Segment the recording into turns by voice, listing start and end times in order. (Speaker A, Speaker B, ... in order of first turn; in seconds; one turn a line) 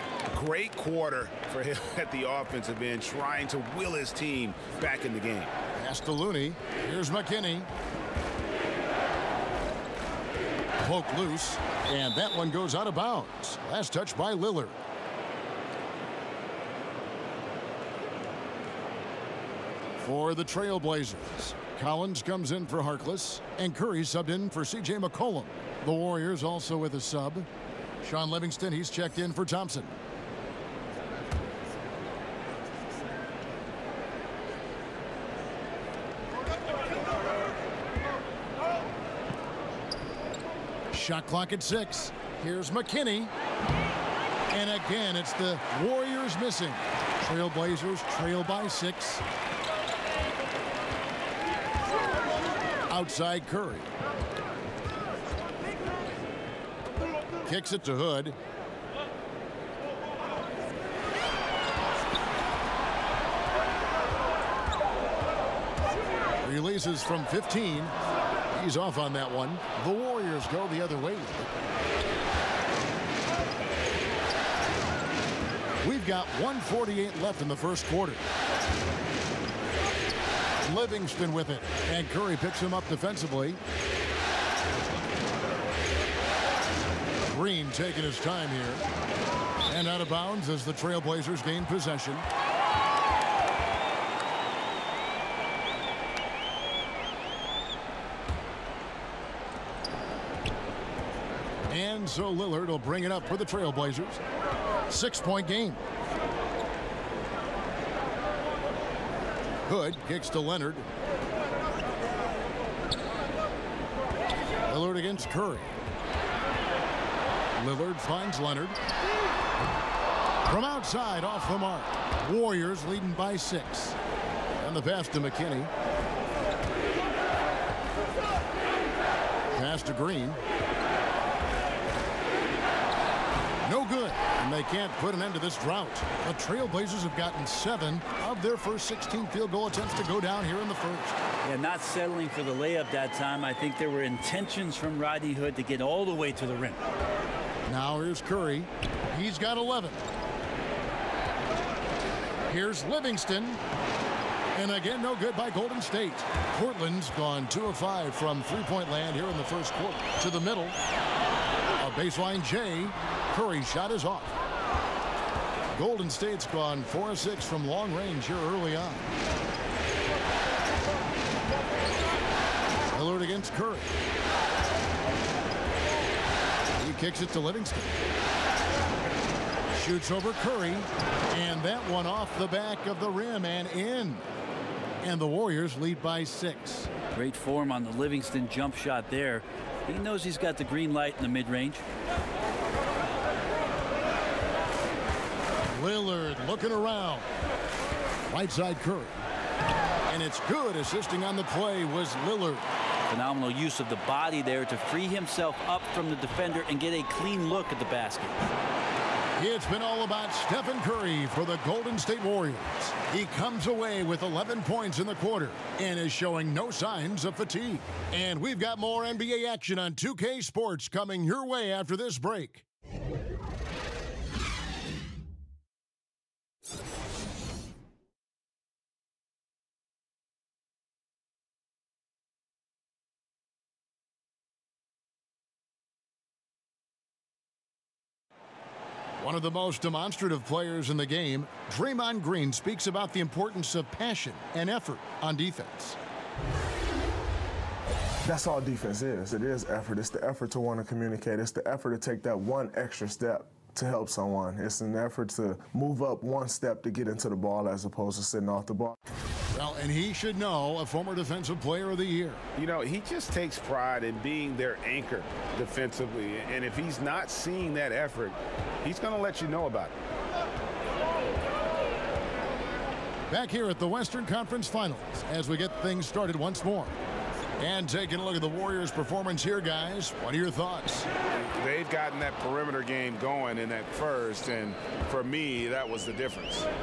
Speaker A: 0.3-5.5
Speaker B: 5.8-7.7
Speaker B: 10.8-14.8
Speaker B: 20.0-27.5
Speaker B: 28.0-29.9
Speaker B: 40.9-43.3
Speaker B: 44.5-49.2
Speaker B: 52.9-53.9
Speaker B: 57.4-58.4
Speaker B: 66.4-68.0
Speaker B: 68.5-71.4
Speaker B: 75.8-78.2
Speaker B: 80.6-83.6
Speaker B: 87.2-88.8
Speaker B: 89.7-92.2
Speaker B: 101.7-104.2
Speaker B: 104.9-105.8
Speaker B: 109.7-110.9
Speaker B: 114.7-115.8
Speaker B: 117.6-118.8
Speaker B: 120.5-124.0
Speaker B: 124.6-125.7
Speaker B: 129.5-130.4
Speaker B: 133.6-141.2
Speaker C: 141.4-146.8
Speaker B: 147.7-150.0
Speaker B: 152.5-153.6
Speaker B: 154.5-160.8
Speaker B: 161.8-164.4
Speaker B: 165.7-169.1
Speaker B: 172.9-173.9
Speaker B: 176.8-178.0
Speaker B: 179.7-184.2
Speaker B: 185.0-186.9
Speaker C: 187.1-191.8
Speaker B: 195.7-197.3
Speaker B: 198.3-199.2
Speaker B: 200.1-202.7
Speaker C: 203.1-208.4
Speaker B: 209.4-222.7
Speaker B: 239.2-246.0
Speaker D: 248.2-259.0
Speaker B: 259.5-262.4
Speaker A: 262.6-269.9
Speaker B: 273.3-276.9
Speaker B: 277.6-281.1
Speaker A: 281.6-286.7